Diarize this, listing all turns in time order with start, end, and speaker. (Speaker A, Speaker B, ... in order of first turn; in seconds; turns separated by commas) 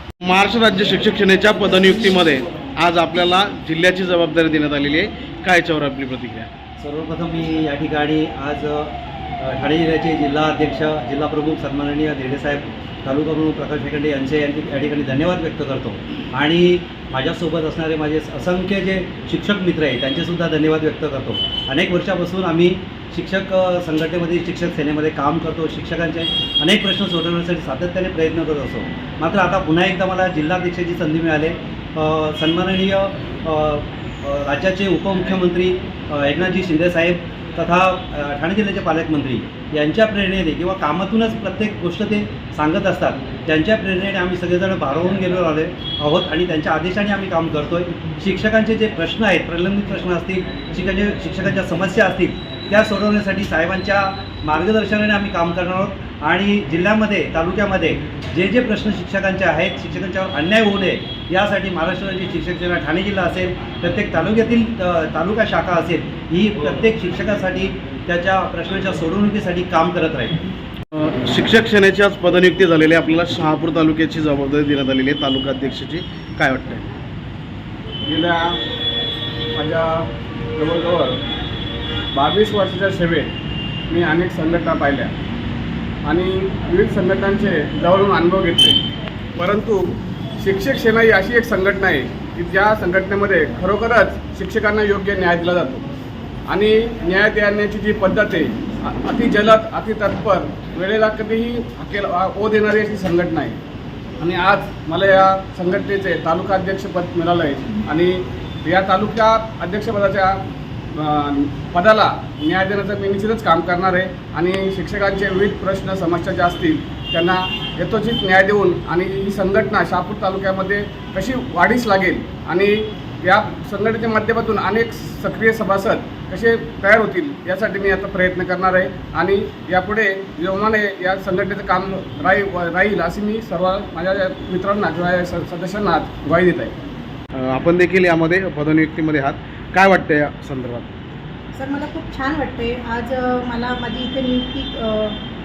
Speaker A: 0.2-6.5, Speaker B: 6.8-70.4, Speaker A: 70.9-76.9, Speaker C: 78.1-78.6, Speaker C: 79.6-81.2, Speaker C: 82.1-83.3, Speaker C: 83.9-85.1, Speaker C: 86.0-88.8, Speaker C: 89.4-95.8, Speaker C: 96.5-103.6, Speaker C: 104.2-110.4, Speaker C: 111.0-136.7, Speaker A: 137.3-140.9, Speaker D: 141.5-145.2